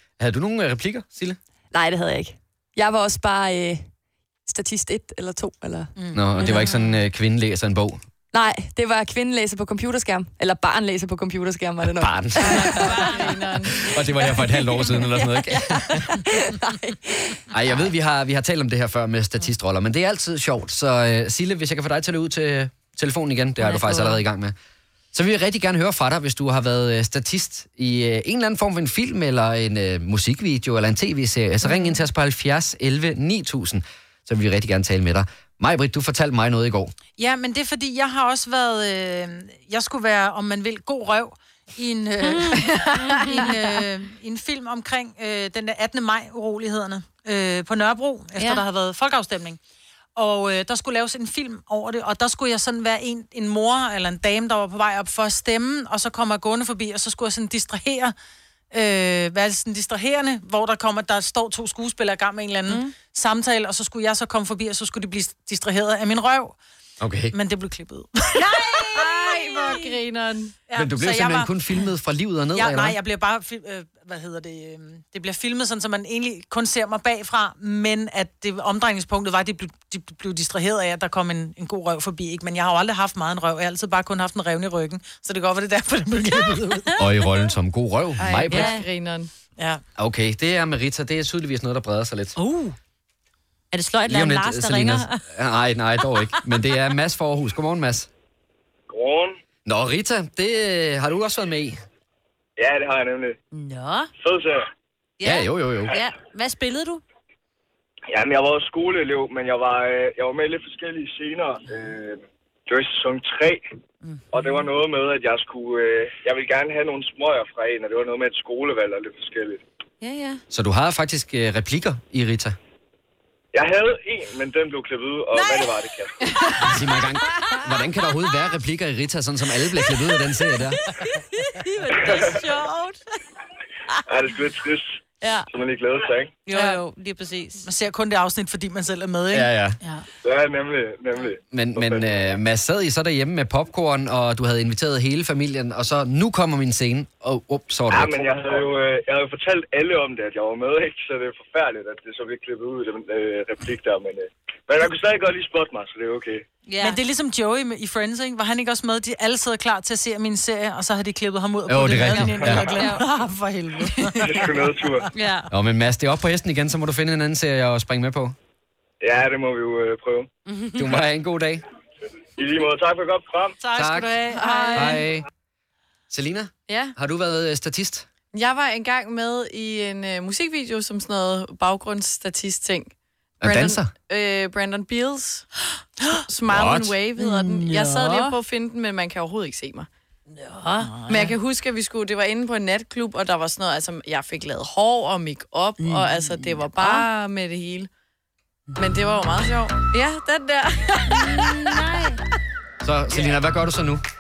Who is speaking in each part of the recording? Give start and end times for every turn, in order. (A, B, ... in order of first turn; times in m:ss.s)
0:00.2-0:01.4 A
0:01.7-0:03.9 B
0:04.5-0:05.9 B
0:06.0-0:06.2 C
0:06.1-0:08.0 A
0:08.3-0:13.2 B
0:11.8-0:13.1 A
0:12.4-0:13.9 D
0:12.7-0:13.2 E
0:13.8-0:16.0 A
0:14.5-0:17.0 B
0:17.5-0:24.6 A
0:23.7-0:24.1 E
0:25.1-0:37.0 A
0:37.2-0:49.6 C
0:42.2-0:43.8 E
0:48.4-0:48.6 E
0:50.2-0:58.1 C
0:58.7-1:06.6 C
1:07.0-1:07.3 A
1:07.3-1:09.0 C
1:08.6-1:10.0 E
1:08.7-1:10.6 D
1:10.7-1:11.5 C
1:10.8-1:13.0 A
1:12.5-1:27.0 C
1:27.0-1:28.8 A
1:28.2-1:29.3 D
1:28.5-1:28.9 E
1:30.0-1:32.4 A
1:32.4-1:32.8 E
1:33.7-1:35.2 E
1:34.1-1:38.1 A
1:38.9-1:39.4 F
1:39.7-1:41.8 A
1:42.6-1:43.4 F
1:43.5-1:44.1 E
1:44.2-1:44.6 F
1:45.2-1:47.0 E
1:45.2-1:46.0 A
1:48.1-1:53.6 F
1:54.0-1:54.6 E
1:54.3-1:59.6 F
2:00.0-2:00.4 E
2:00.5-2:02.6 A
2:03.5-2:06.3 F
2:05.4-2:05.7 E
2:06.2-2:06.7 D
2:06.6-2:10.8 A
2:11.6-2:13.0 E
2:12.0-2:12.4 F
2:14.1-2:15.0 F
2:15.2-2:15.5 E
2:15.5-2:16.4 F
2:16.4-2:17.7 E
2:17.6-2:19.5 C
2:19.3-2:19.8 A
2:20.2-2:22.2 F
2:21.5-2:28.2 A
2:27.9-2:36.4 F
2:36.7-2:37.0 E
2:36.8-2:45.0 C
2:41.7-2:42.8 A
2:42.0-2:43.1 E
2:44.2-2:45.1 F
2:45.1-2:45.5 E
2:45.5-2:48.4 A
2:49.0-2:50.3 F
2:50.5-2:51.0 E
2:50.8-2:51.6 A
2:52.4-2:53.6 F
2:53.6-2:55.0 C
2:53.8-2:54.2 A
2:54.3-2:55.0 D
2:54.7-2:55.3 A
2:56.1-2:58.1 A
2:56.7-2:57.0 D
2:58.3-3:05.5 D
3:03.4-3:03.9 A
3:06.3-3:09.9 D
3:06.5-3:07.0 A
3:07.2-3:08.3 E
3:07.7-3:08.0 A
3:10.4-3:10.9 E
3:10.8-3:11.4 C
3:11.1-3:17.9 D
3:16.7-3:17.1 E
3:18.8-3:19.1 E
3:18.8-3:21.8 D
3:21.1-3:22.2 E
3:22.8-3:24.0 A